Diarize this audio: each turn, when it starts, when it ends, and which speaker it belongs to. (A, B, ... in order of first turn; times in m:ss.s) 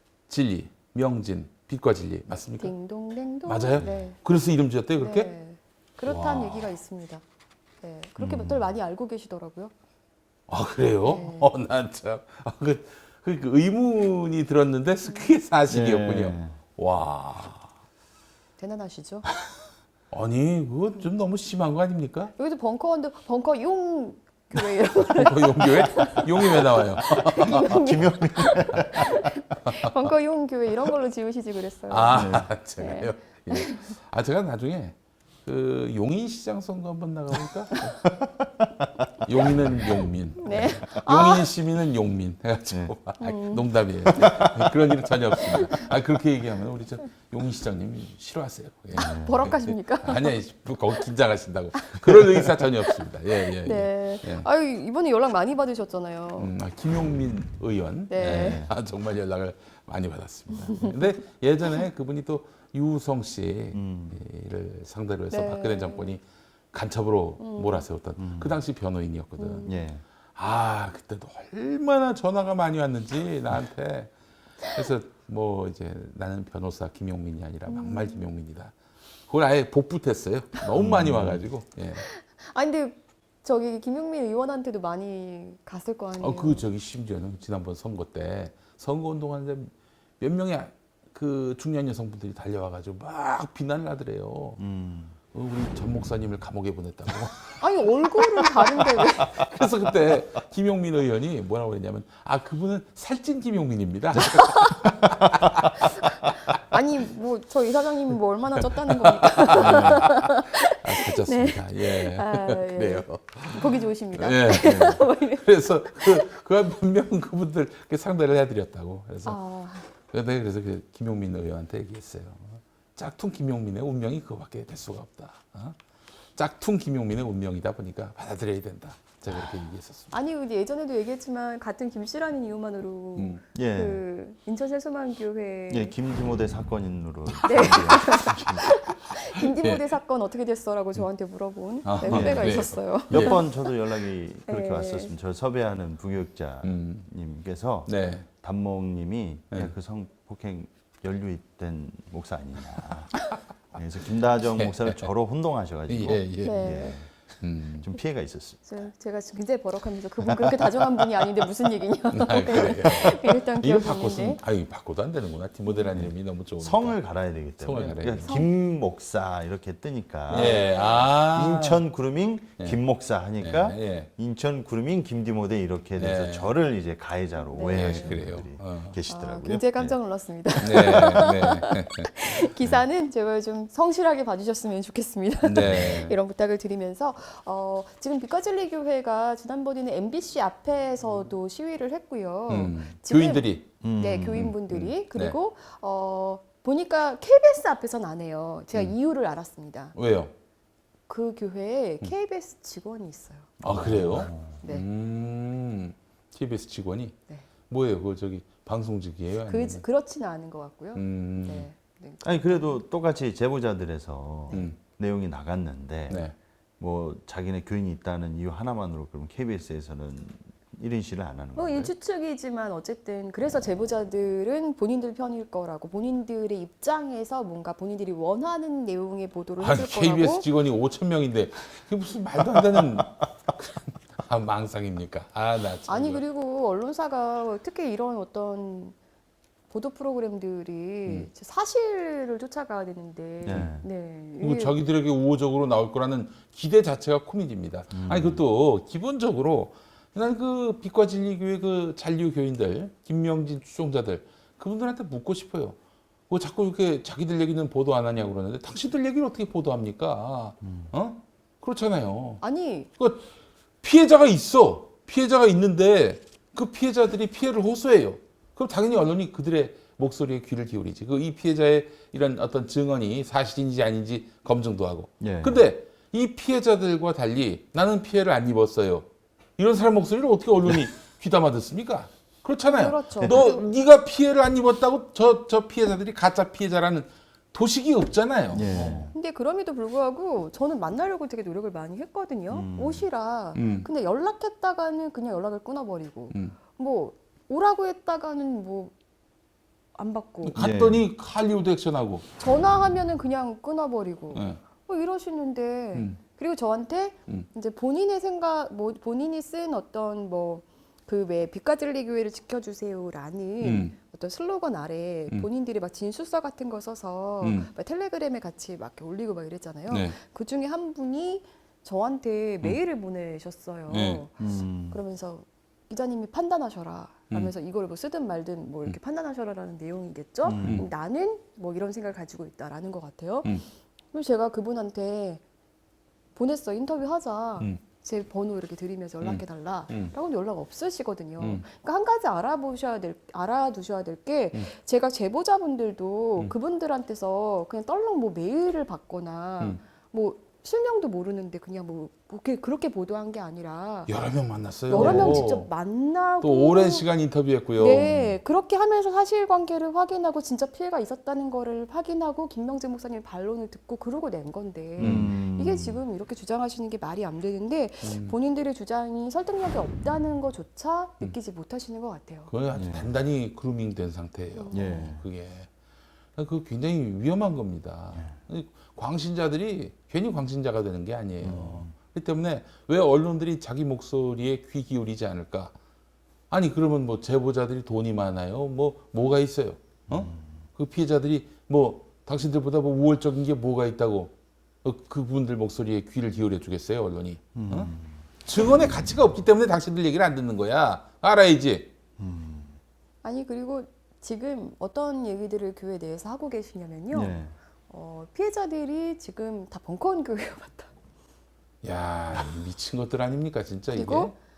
0:00.3-0:02.7 A
0:02.6-0:04.2 B
0:03.4-0:05.3 A
0:05.0-0:07.2 B
0:06.0-0:06.7 A
0:07.8-0:09.7 B
0:08.2-0:08.7 C
0:10.5-0:17.7 A
0:11.0-0:11.5 B
0:15.7-0:16.6 C
0:18.6-0:19.3 B
0:20.1-0:22.3 A
0:22.4-0:33.9 B
0:25.0-0:27.8 A
0:27.5-0:29.2 C
0:28.7-0:29.1 A
0:31.9-0:38.0 A
0:32.1-0:32.5 C
0:38.2-0:40.0 C
0:39.2-0:54.5 A
0:40.4-0:41.5 B
0:40.5-0:40.8 C
0:43.2-0:43.7 B
0:44.0-0:44.9 C
0:45.4-0:45.8 B
0:48.9-0:50.4 B
0:49.0-0:49.5 C
0:52.8-0:56.5 B
0:56.4-1:09.7 A
0:58.1-0:58.7 B
0:58.2-0:58.7 C
1:00.6-1:01.0 B
1:03.7-1:04.2 C
1:05.3-1:06.1 B
1:07.4-1:07.8 B
1:08.2-1:08.6 C
1:09.4-1:09.7 B
1:09.6-1:10.0 C
1:10.3-1:14.1 A
1:14.6-1:18.7 A
1:17.7-1:18.2 B
1:19.3-1:22.0 A
1:20.7-1:21.4 C
1:22.0-1:26.7 B
1:26.2-1:34.6 A
1:34.6-1:35.2 C
1:35.3-1:37.6 A
1:37.6-1:39.4 B
1:38.7-1:46.3 A
1:44.2-1:44.8 B
1:45.8-1:56.3 B
1:48.6-2:05.8 A
1:54.7-1:55.0 C
1:59.2-1:59.9 B
2:06.4-2:10.1 A
2:10.1-2:15.9 B
2:13.2-2:13.4 A
2:13.5-2:14.0 C
2:15.7-2:18.6 C
2:17.3-2:19.8 A
2:17.4-2:23.7 B
2:21.8-2:23.4 A
2:22.1-2:37.1 C
2:24.5-2:25.1 B
2:26.6-2:27.1 A
2:27.9-2:28.3 A
2:34.5-2:35.0 A
2:35.9-2:37.9 A
2:36.4-2:37.0 B
2:37.8-2:38.6 C
2:38.6-2:44.4 B
2:42.1-2:47.0 A
2:45.9-3:00.0 C
2:47.6-2:48.4 A
2:48.2-2:48.5 B
2:50.3-2:51.8 A
2:50.3-2:51.1 B
2:53.4-2:54.1 A
2:56.0-2:56.5 A
2:57.5-2:58.2 B
2:57.7-2:59.0 A
2:59.1-3:19.9 B
3:00.6-3:02.3 A
3:05.4-3:06.2 A
3:12.5-3:13.7 A
3:13.8-3:14.6 C
3:14.4-3:15.4 A
3:19.9-3:20.3 A
3:21.1-3:23.5 B
3:23.6-3:29.8 A
3:23.7-3:24.6 C
3:29.5-3:32.8 B
3:30.9-3:31.7 A
3:32.2-3:36.3 C
3:34.5-3:34.8 A
3:36.1-3:36.3 A
3:36.8-3:41.9 C
3:41.5-3:50.5 B
3:49.6-3:56.2 A
3:55.9-3:58.9 B
3:59.7-4:04.7 B
4:03.4-4:03.8 C
4:04.4-4:15.8 A
4:07.9-4:08.4 C
4:16.3-4:22.4 A
4:22.4-4:22.9 B
4:23.0-4:23.3 A
4:23.8-4:49.0 A
4:35.2-4:35.6 C
4:42.6-4:43.6 B
4:43.2-4:43.5 C
4:48.5-4:49.1 C
4:49.1-4:58.9 B
4:52.5-4:53.0 C
4:53.5-4:53.9 A
4:56.3-4:56.6 A
4:59.9-5:00.6 B
5:00.4-5:02.3 A
5:00.6-5:01.0 C
5:02.4-5:35.4 B
5:04.3-5:04.6 A
5:13.6-5:13.9 A
5:17.4-5:17.7 A
5:19.9-5:20.1 A
5:23.9-5:24.2 A
5:24.4-5:25.0 C
5:30.4-5:30.8 C
5:30.6-5:30.9 A
5:36.4-5:54.1 B
5:39.2-5:40.1 A
5:54.1-5:55.7 A
5:54.9-5:57.0 B
5:54.9-5:55.5 C
5:56.4-5:58.3 A
5:57.8-6:12.5 B
6:05.0-6:05.3 A
6:05.0-6:06.0 C
6:08.0-6:08.3 A
6:12.5-6:15.7 A
6:12.7-6:13.1 C
6:14.6-6:15.1 B
6:14.7-6:15.2 C
6:16.4-6:25.7 A
6:21.4-6:21.9 C
6:26.5-6:37.9 A
6:30.1-6:30.4 C
6:37.5-6:38.1 C
6:38.4-6:41.9 A
6:42.2-6:42.8 C
6:43.2-6:47.4 B
6:47.1-6:47.5 C
6:47.9-6:50.9 B
6:51.8-6:54.3 A
6:53.9-6:54.3 B